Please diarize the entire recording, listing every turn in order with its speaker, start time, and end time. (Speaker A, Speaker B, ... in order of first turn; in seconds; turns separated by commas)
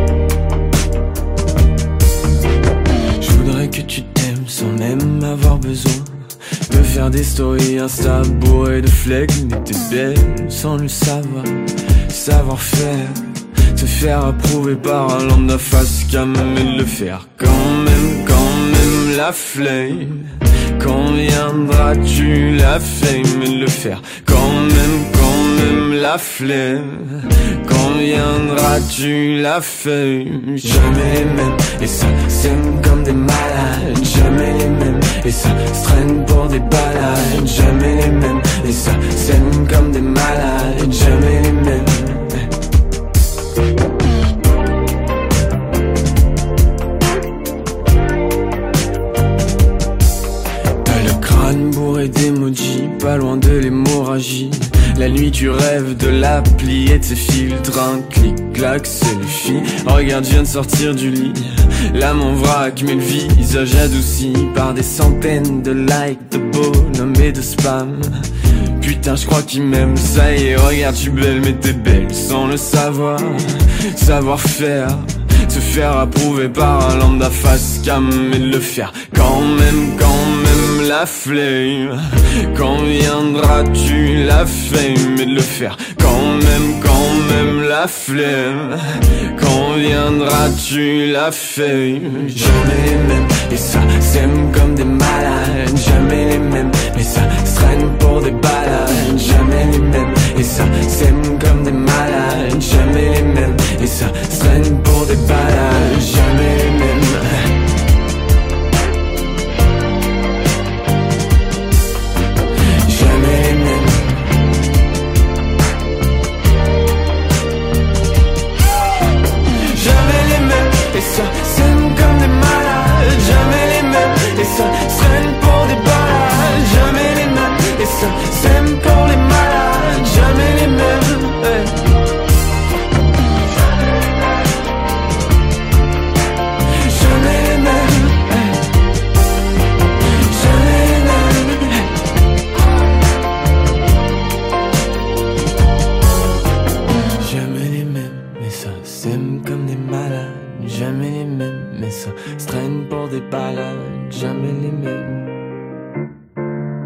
Speaker A: 3.2-6.1, Speaker A: 6.7-42.5, Speaker A: 50.8-68.2, Speaker A: 68.8-107.5, Speaker A: 112.8-114.2, Speaker A: 119.7-131.8, Speaker A: 136.8-138.6, Speaker A: 140.2-141.9, Speaker A: 147.2-155.4